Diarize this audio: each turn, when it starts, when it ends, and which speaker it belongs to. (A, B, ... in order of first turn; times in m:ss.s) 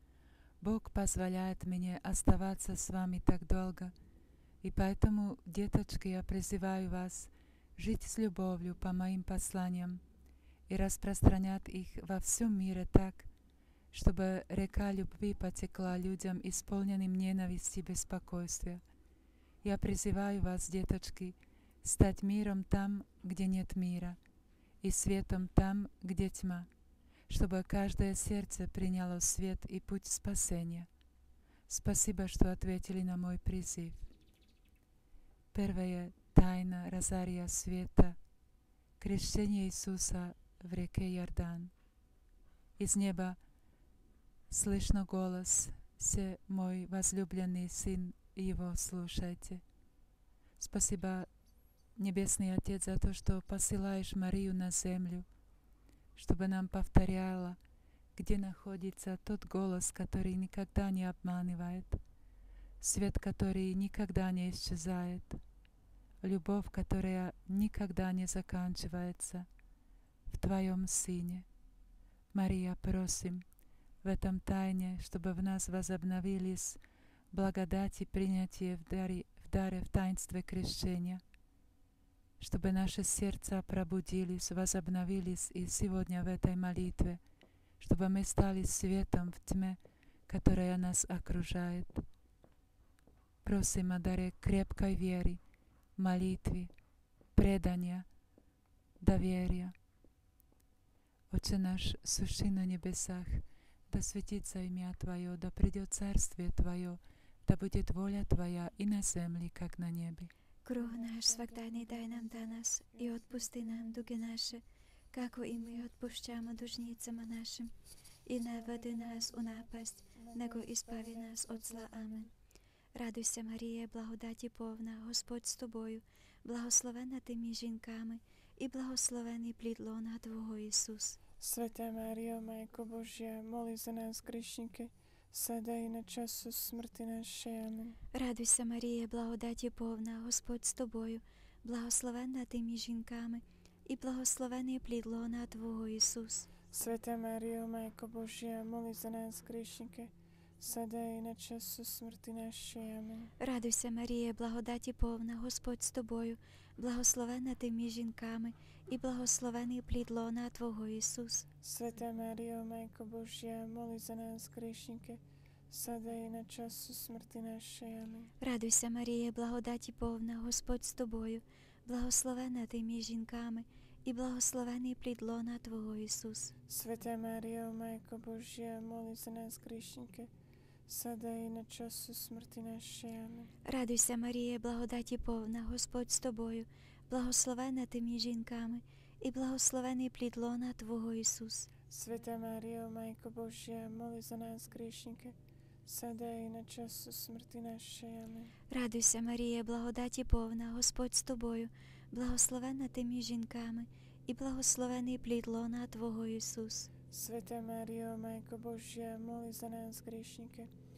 0:00.6-0:03.9 A
0:04.6-0:10.0 A
0:10.7-0:13.3 A
0:13.9-0:18.8 A
0:19.6-0:24.2 A
0:24.8-0:26.7 A
0:27.3-0:30.9 A
0:31.7-0:34.0 A
0:35.5-0:38.2 A
0:39.0-0:41.7 A
0:42.8-0:43.4 A
0:44.5-0:49.6 A
0:50.6-0:51.3 A
0:52.0-0:55.2 A
0:56.2-0:57.6 A
0:58.2-1:02.0 A
1:02.8-1:05.4 A
1:06.2-1:09.5 A
1:10.3-1:11.4 A
1:12.3-1:13.4 A
1:14.0-1:16.8 A
1:17.3-1:21.2 A
1:22.4-1:27.2 A
1:27.8-1:32.0 A
1:33.4-1:35.4 A
1:36.0-1:36.7 A
1:37.3-1:38.1 A
1:39.0-1:39.7 A
1:41.3-1:50.3 A
1:50.6-1:54.6 B
1:55.1-1:57.7 B
1:58.2-2:02.3 B
2:00.2-2:01.9 C
2:02.9-2:11.2 B
2:11.4-2:18.0 C
2:18.1-2:26.5 B
2:26.7-2:33.3 C
2:33.4-2:41.4 B
2:41.6-2:48.3 C
2:48.4-2:56.5 B
2:56.7-3:00.3 C
3:00.9-3:03.5 C
3:03.6-3:11.7 B
3:11.9-3:15.3 C
3:15.8-3:18.5 C
3:18.7-3:26.9 B
3:27.1-3:30.7 C